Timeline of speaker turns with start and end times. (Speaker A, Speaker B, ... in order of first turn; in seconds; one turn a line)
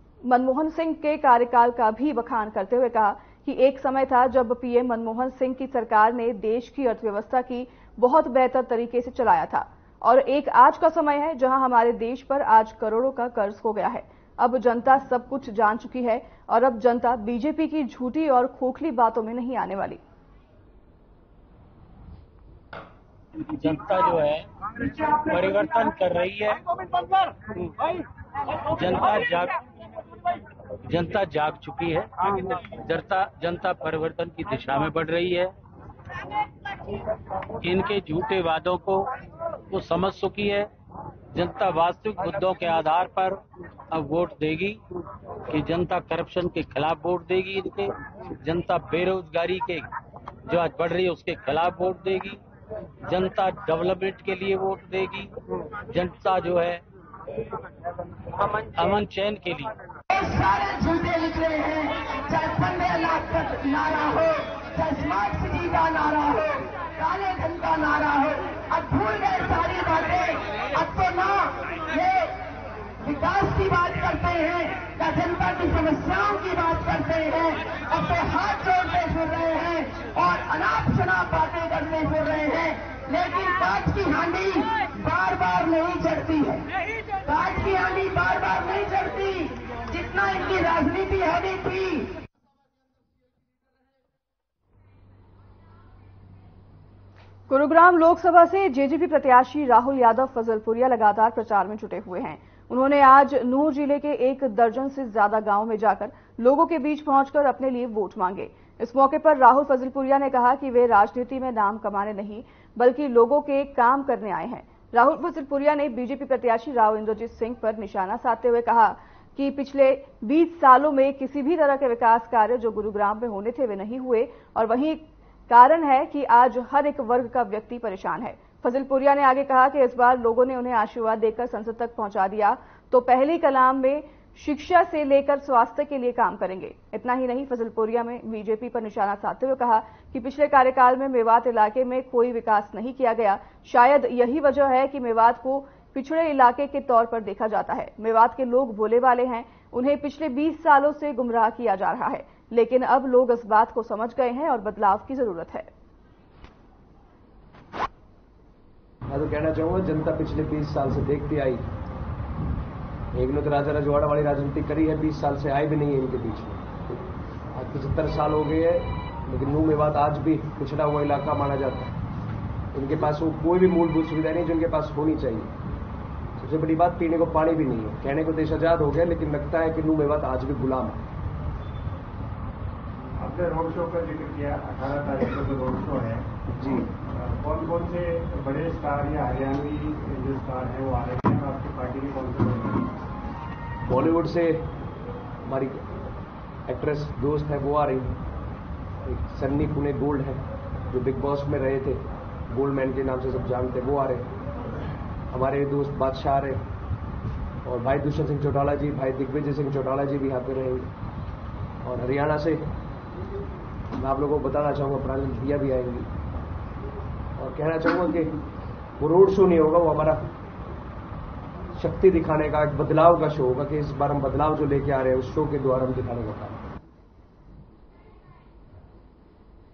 Speaker A: 0.2-20.0
Speaker B: 23.6-26.6
Speaker B: 28.7-29.5
Speaker B: 30.9-35.5
Speaker B: 37.6-39.1
Speaker B: 39.7-40.7
Speaker B: 41.3-43.4
Speaker B: 43.9-44.8
Speaker B: 45.5-49.8
Speaker B: 50.5-52.4
Speaker B: 53.1-55.3
Speaker B: 55.9-56.8
Speaker B: 58.4-59.7
Speaker C: 60.1-72.3
Speaker C: 73.0-86.6
Speaker C: 87.2-92.1
Speaker A: 97.5-155.7
Speaker D: 159.1-161.6
Speaker D: 163.1-167.0
Speaker D: 167.5-171.9
Speaker D: 172.7-175.5
Speaker D: 176.4-181.0
Speaker E: 183.2-186.3
Speaker D: 186.6-186.9
Speaker E: 187.1-192.9
Speaker D: 193.8-194.7
Speaker D: 195.4-195.9
Speaker D: 196.7-198.2
Speaker D: 199.0-204.2
Speaker D: 205.3-206.6
Speaker D: 207.6-210.9
Speaker D: 211.8-212.7
Speaker D: 214.0-216.1
Speaker D: 217.4-218.3
Speaker D: 219.0-220.3
Speaker D: 221.8-226.6